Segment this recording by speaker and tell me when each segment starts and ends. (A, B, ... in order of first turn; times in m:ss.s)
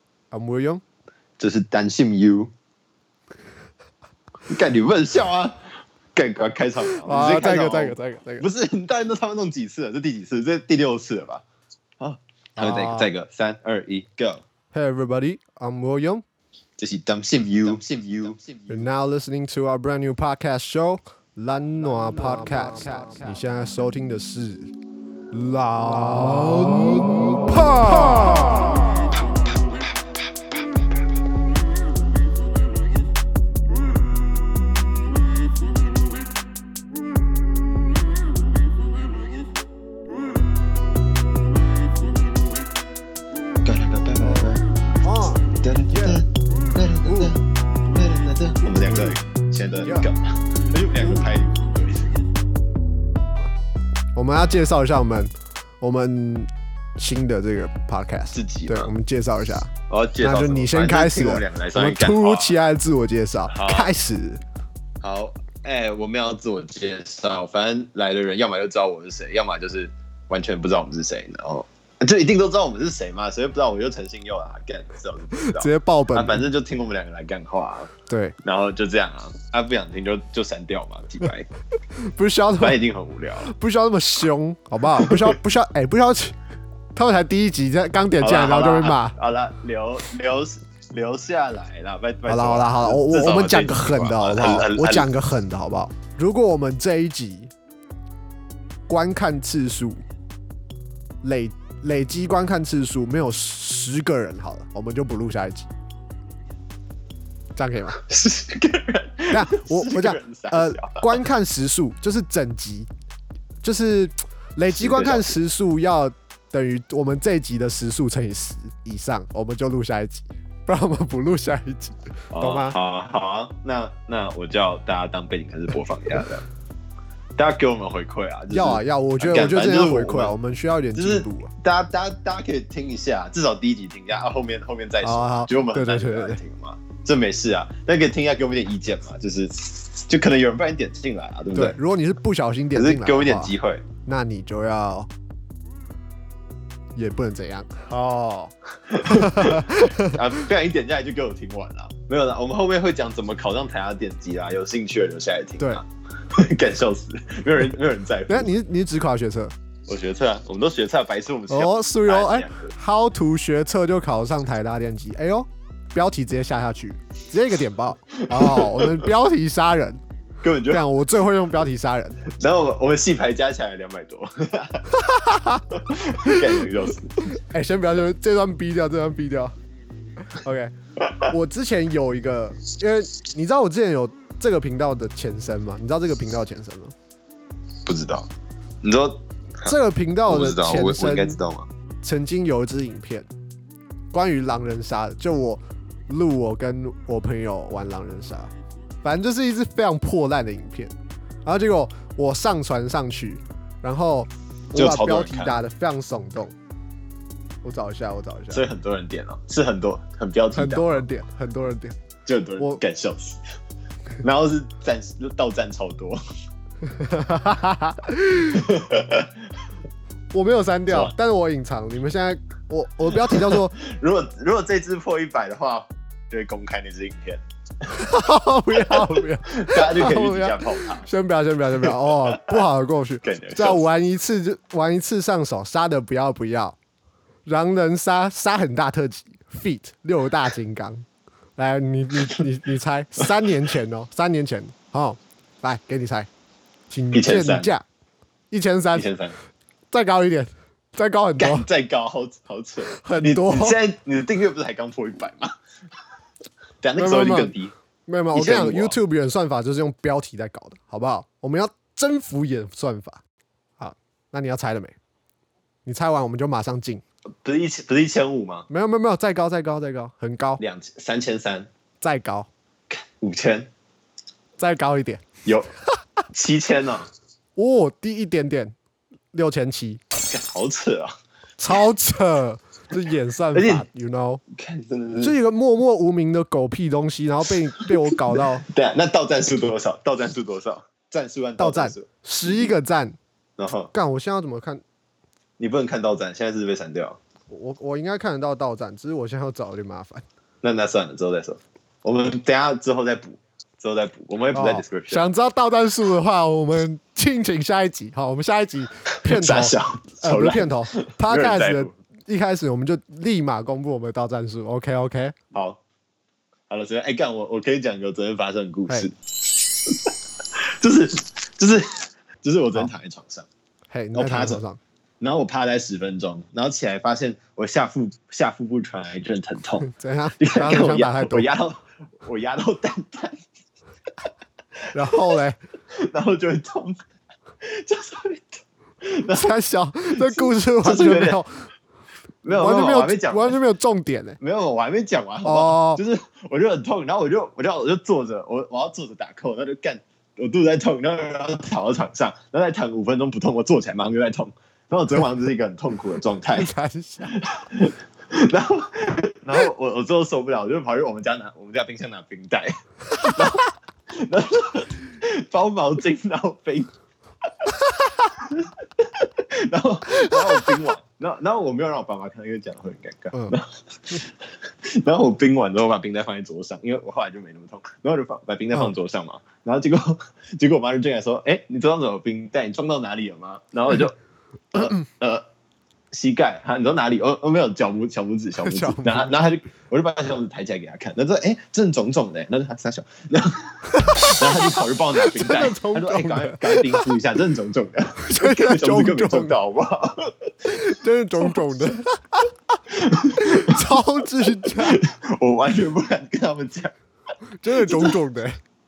0:00.3-0:00.8 A
0:01.4-0:02.5 B
0:04.5-0:05.6 B
0:06.1-0:11.4 B
0:06.9-0:08.5 A
0:12.0-0:14.4 B
0:12.6-0:13.1 A
0:14.7-0:16.2 A
0:16.8-0:18.8 B
0:18.7-0:24.7 A
0:25.3-0:28.9 A
0:43.6-0:44.7 B
0:44.2-0:47.3 A
0:45.6-0:52.1 B
0:48.9-0:49.2 A
0:54.2-1:04.4 A
0:58.3-0:58.9 B
0:59.9-1:02.6 B
1:03.5-1:03.9 B
1:05.0-1:17.9 B
1:15.4-1:16.5 A
1:18.1-1:18.4 A
1:18.4-1:21.5 B
1:22.0-1:22.8 A
1:22.6-1:23.5 B
1:23.4-1:26.4 A
1:25.0-1:25.3 B
1:27.0-1:29.2 A
1:28.2-1:35.1 B
1:32.3-1:37.5 A
1:38.9-1:40.0 A
1:41.2-1:45.7 A
1:47.6-1:48.0 A
1:48.0-1:51.2 B
1:49.3-1:52.9 A
1:53.6-2:02.8 A
1:54.7-1:55.4 B
2:02.3-2:06.4 B
2:07.4-2:10.3 B
2:08.5-2:11.5 A
2:11.0-2:21.8 B
2:15.0-2:16.4 A
2:21.6-2:23.5 A
2:22.8-2:23.8 B
2:24.0-2:25.1 A
2:27.0-2:30.2 A
2:28.9-2:38.5 B
2:38.3-2:39.5 A
2:39.9-2:42.7 B
2:41.5-2:50.0 A
2:48.3-2:49.1 B
2:50.4-2:50.8 B
2:50.7-2:52.2 A
2:52.3-2:54.9 B
2:54.9-2:56.6 A
2:55.9-2:57.2 B
2:57.2-2:59.6 A
3:00.3-3:06.9 A
3:07.8-3:08.3 B
3:08.8-3:09.7 B
3:09.6-3:11.4 A
3:10.2-3:11.7 B
3:12.0-3:13.3 A
3:14.1-3:20.9 A
3:21.4-3:26.6 A
3:24.7-3:25.6 B
3:27.6-3:28.6 A
3:28.5-3:31.1 B
3:30.5-3:32.0 A
3:32.3-3:33.4 B
3:34.2-3:36.2 B
3:36.9-3:38.6 A
3:38.5-3:39.3 B
3:40.3-3:43.8 A
3:40.9-3:41.1 B
3:43.1-3:47.4 B
3:47.9-3:56.8 A
3:48.7-3:51.1 B
3:51.8-3:52.6 B
3:53.2-3:53.8 B
3:57.5-4:01.1 A
4:01.6-4:06.3 A
4:06.9-4:07.8 A
4:07.1-4:07.7 B
4:08.5-4:09.1 A
4:08.9-4:09.4 B
4:09.9-4:11.7 A
4:11.4-4:15.5 B
4:12.9-4:13.8 A
4:16.8-4:17.7 B
4:17.0-4:17.5 A
4:18.1-4:23.2 A
4:18.3-4:19.0 B
4:23.8-4:25.0 A
4:25.8-4:27.0 A
4:27.4-4:28.7 B
4:28.7-4:30.6 A
4:30.6-4:31.7 B
4:32.0-4:32.5 A
4:32.9-4:33.7 B
4:34.6-4:35.2 A
4:35.4-4:35.7 B
4:36.3-4:37.1 B
4:37.6-4:38.8 A
4:39.3-4:40.0 A
4:40.3-4:41.1 B
4:41.6-4:44.4 A
4:43.5-4:43.9 B
4:44.5-4:45.3 B
4:45.2-4:48.7 A
4:48.6-4:52.7 B
4:51.6-4:53.2 A
4:53.6-4:53.9 B
4:53.9-4:54.8 A
4:55.6-4:57.2 B
4:57.5-5:00.2 A
5:00.6-5:05.3 B
5:04.5-5:15.4 A
5:09.2-5:11.9 B
5:15.5-5:15.8 B
5:16.7-5:20.1 B
5:20.8-5:23.5 B
5:23.9-5:24.8 A
5:24.1-5:24.6 B
5:25.2-5:29.9 B
5:29.8-5:31.5 A
5:30.4-5:33.4 B
5:34.9-5:35.6 A
5:35.0-5:35.4 B
5:35.9-5:37.0 B
5:37.6-5:39.6 B
5:39.3-5:41.7 A
5:40.1-5:41.4 B
5:42.4-5:43.6 B
5:42.5-5:44.4 A
5:44.4-5:56.7 B
5:45.4-5:46.0 A
5:56.5-5:57.4 A
5:57.3-6:06.9 B
6:08.3-6:24.2 B
6:24.7-6:25.4 B
6:26.1-6:40.5 B
6:28.6-6:29.4 A
6:33.9-6:34.3 A
6:35.3-6:37.1 A
6:38.2-6:39.6 A
6:40.7-6:42.5 A
6:42.9-6:43.8 B
6:43.4-6:45.0 A
6:44.6-6:46.9 B
6:47.6-6:48.6 A
6:47.8-6:48.2 B